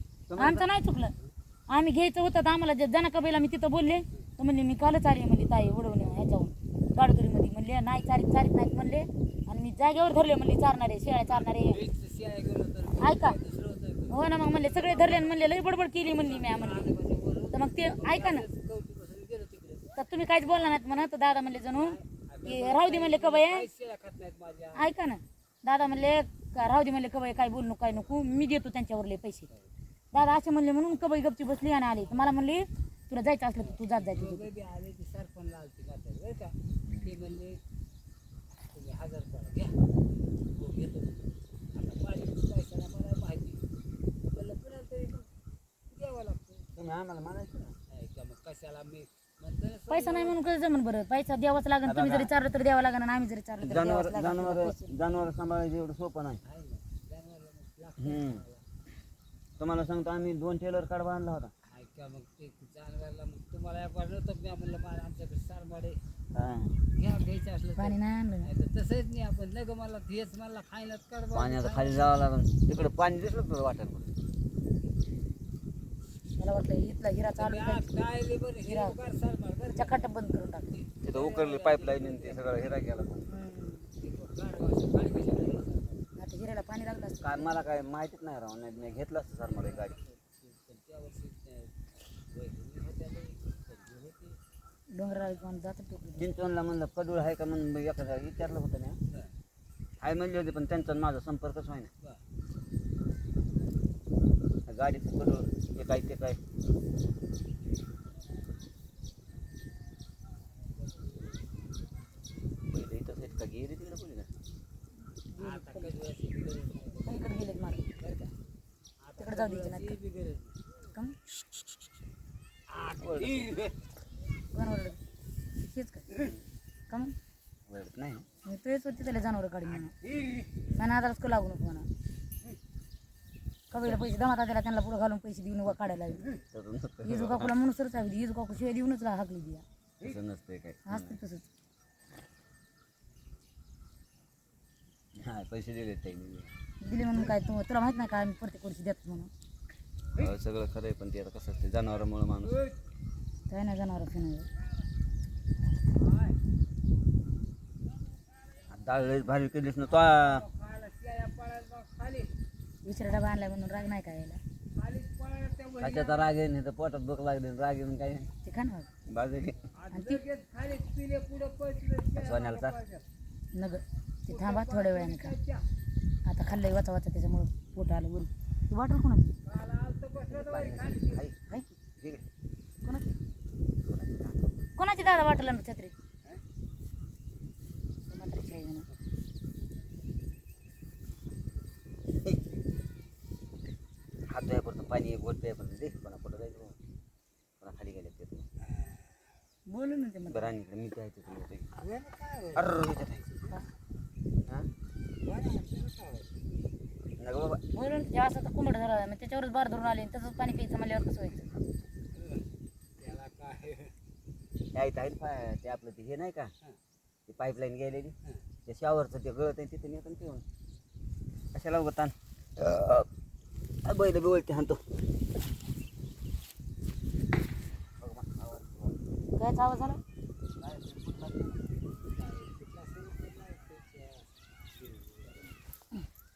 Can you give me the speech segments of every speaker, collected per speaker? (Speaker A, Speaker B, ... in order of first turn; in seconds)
Speaker A: 0.3-0.7, 36.9-37.1, 46.8-47.8, 51.9-52.3, 53.6-56.4, 58.0-58.4, 59.6-61.5, 66.3-66.8, 71.3-74.1, 81.0-83.3, 87.2-90.0, 96.2-99.0, 100.0-101.9, 104.7-106.4, 112.7-114.3, 123.0-123.5, 127.7-128.2, 136.5-137.5, 140.0-141.2, 145.2-146.5, 150.2-152.6, 158.7-160.4, 165.8-168.3, 169.1-169.6, 172.2-172.8, 180.3-181.4, 182.0-182.2, 183.9-184.5, 194.3-196.8, 197.6-198.5, 200.3-201.7, 202.6-203.2, 207.2-207.6, 214.7-216.5, 217.3-218.2, 218.7-220.4, 221.5-223.1, 223.8-224.8, 228.0-229.0, 230.6-231.6
Speaker B: 0.4-1.1, 1.7-11.8, 13.0-13.4, 14.1-16.9, 17.5-18.5, 20.0-23.7, 24.8-29.5, 30.1-34.5, 49.9-54.9, 67.8-68.5, 76.4-77.9, 78.6-79.0, 79.7-80.7, 83.3-83.9, 86.2-87.5, 94.9-96.3, 115.3-115.9, 117.0-117.8, 119.2-120.0, 124.5-125.0, 125.6-126.1, 126.9-127.2, 128.5-129.9, 130.8-131.9, 133.7-136.3, 137.1-139.7, 140.9-141.5, 146.8-149.3, 153.5-154.5, 162.8-164.4, 168.4-168.9, 169.9-170.2, 173.5-175.3, 176.3-179.3, 182.8-183.1, 184.8-185.9, 188.1-188.9, 199.7-200.5, 207.7-211.5, 229.4-230.0
Speaker C: 11.3-25.0, 32.0-32.4, 33.6-37.6, 38.7-39.8, 40.5-43.6, 44.3-45.3, 45.9-46.7, 47.9-50.4, 56.4-58.6, 61.7-66.0, 67.0-72.2, 77.4-80.1, 80.7-82.7, 84.0-86.1, 88.8-91.7, 92.3-94.4, 110.8-111.5, 115.4-118.3, 119.0-120.6, 122.7-123.7, 152.4-152.8, 155.9-156.4, 159.8-162.3, 164.8-166.4, 169.7-173.0, 174.3-175.6, 179.4-181.3, 201.8-203.6, 205.2-206.4, 212.2-212.4, 213.0-213.9, 232.0-235.6